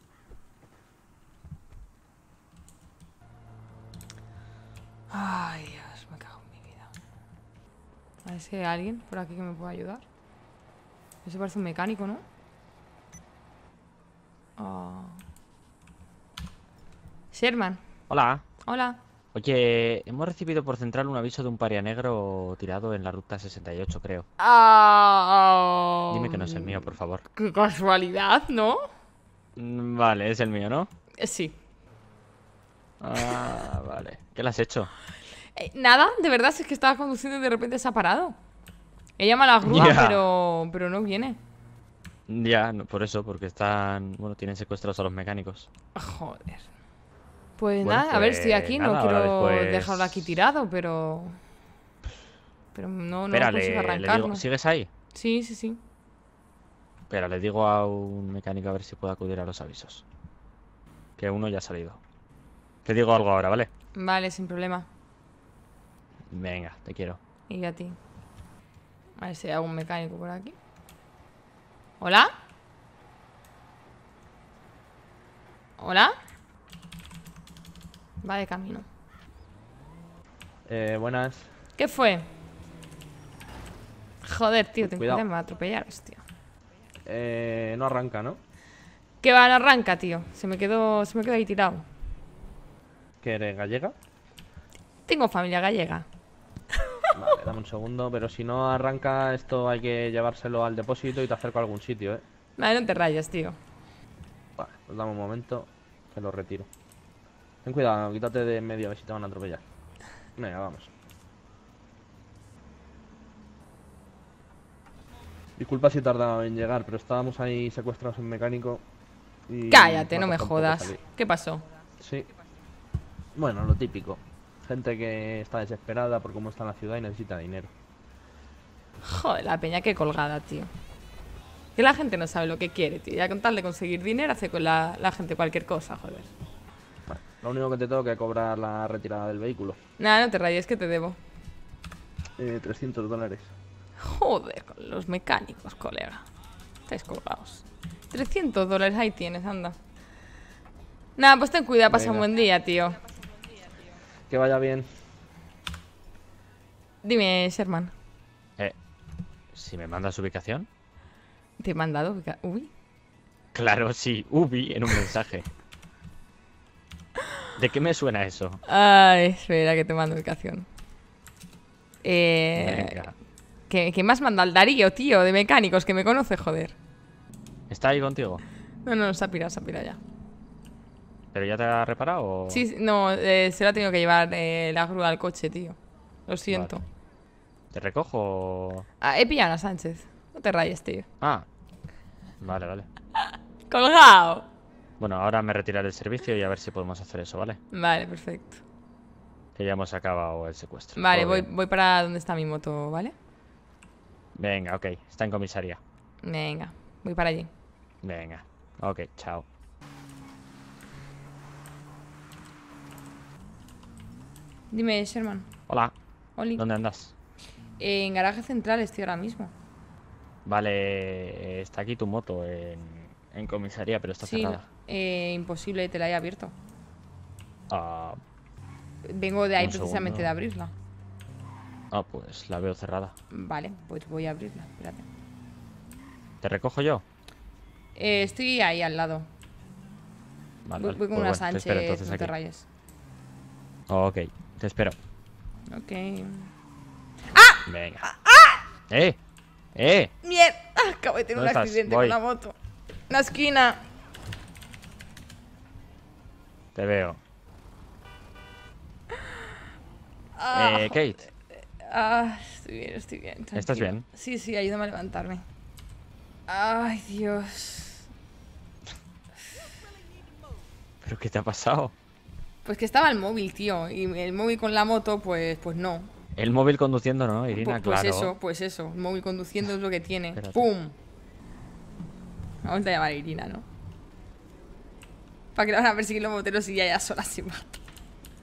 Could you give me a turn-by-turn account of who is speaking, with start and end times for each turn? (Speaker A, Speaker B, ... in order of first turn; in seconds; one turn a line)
Speaker A: 5.1-6.9
Speaker A: 8.2-10.0
Speaker A: 11.2-12.2
Speaker A: 14.6-15.2
Speaker A: 17.3-17.8
Speaker B: 18.1-18.4
Speaker A: 18.6-19.0
Speaker B: 19.3-24.2
Speaker A: 24.4-28.8
Speaker B: 26.1-27.2
Speaker B: 29.6-30.9
Speaker A: 31.2-31.5
Speaker B: 33.0-34.9
Speaker A: 33.3-33.6
Speaker A: 35.5-38.4
Speaker A: 39.2-41.4
Speaker B: 39.6-40.2
Speaker B: 42.3-45.7
Speaker A: 45.9-46.6
Speaker A: 47.6-51.4
Speaker B: 47.8-50.4
Speaker A: 52.7-54.4
Speaker B: 53.3-54.9
Speaker A: 55.1-55.8
Speaker B: 57.1-60.0
Speaker B: 61.2-62.0
Speaker B: 62.8-63.7
Speaker A: 64.0-64.9
Speaker B: 66.3-67.2
Speaker A: 67.5-68.0
Speaker A: 69.2-70.5
Speaker A: 72.0-72.3
Speaker A: 75.8-76.1
Speaker A: 78.2-78.8
Speaker C: 80.7-81.4
Speaker A: 81.8-82.3
Speaker A: 84.2-86.2
Speaker C: 84.8-85.2
Speaker C: 87.0-88.4
Speaker A: 89.2-91.8
Speaker C: 93.2-93.9
Speaker A: 95.1-96.1
Speaker A: 96.7-97.1
Speaker C: 97.1-102.2
Speaker A: 102.6-103.6
Speaker C: 104.6-106.7
Speaker C: 107.6-109.6
Speaker C: 110.4-110.9
Speaker C: 115.6-118.8
Speaker C: 119.5-121.0
Speaker A: 119.7-121.6
Speaker C: 122.0-122.3
Speaker C: 123.3-127.7
Speaker A: 129.0-130.7
Speaker A: 131.8-136.3
Speaker C: 137.1-139.8
Speaker A: 140.0-141.2
Speaker C: 142.4-143.5
Speaker A: 144.0-146.2
Speaker A: 146.9-149.8
Speaker A: 151.2-153.0
Speaker C: 151.9-152.2
Speaker C: 154.3-154.9
Speaker A: 157.0-157.9
Speaker B: 159.5-160.7
Speaker A: 161.6-162.7
Speaker B: 163.5-165.5
Speaker B: 167.6-168.6
Speaker A: 168.7-170.7
Speaker A: 172.0-173.0
Speaker B: 172.6-173.1
Speaker A: 173.7-176.8
Speaker B: 177.7-178.4
Speaker A: 178.8-180.0
Speaker B: 181.3-182.6
Speaker A: 182.5-186.8
Speaker B: 186.5-186.7
Speaker B: 187.7-188.8
Speaker A: 189.0-191.1
Speaker B: 191.2-191.4
Speaker B: 192.4-192.9
Speaker A: 193.7-194.5
Speaker B: 195.0-197.6
Speaker A: 197.7-198.6
Speaker B: 199.6-201.5
Speaker A: 200.9-203.1
Speaker B: 204.3-205.8
Speaker A: 206.2-207.5
Speaker B: 208.0-209.4
Speaker A: 214.7-215.5
Speaker B: 215.7-215.9
Speaker A: 216.3-216.6
Speaker B: 216.6-217.1
Speaker A: 217.8-219.5
Speaker B: 220.4-224.7
Speaker A: 224.2-226.5
Speaker B: 227.7-228.2
Speaker A: 229.0-230.7
Speaker B: 229.6-230.3
Speaker B: 231.9-233.1
Speaker A: 233.3-235.1
Speaker B: 236.4-237.0
Speaker A: 237.9-239.3
Speaker B: 240.6-242.3
Speaker A: 240.8-242.7
Speaker B: 243.9-244.9
Speaker A: 245.7-246.5
Speaker A: 247.3-248.6
Speaker B: 247.7-248.1
Speaker B: 248.9-249.2
Speaker B: 249.7-250.1
Speaker A: 250.2-252.5
Speaker B: 251.3-252.2
Speaker A: 253.1-253.8
Speaker B: 256.7-257.2
Speaker A: 259.1-259.5
Speaker A: 260.4-265.4
Speaker B: 260.5-261.2
Speaker B: 263.5-264.1
Speaker A: 266.5-268.1
Speaker B: 271.0-271.9
Speaker A: 272.6-276.1
Speaker B: 276.4-278.3
Speaker A: 277.5-280.9
Speaker B: 280.3-280.7
Speaker A: 282.6-283.6
Speaker A: 285.5-287.8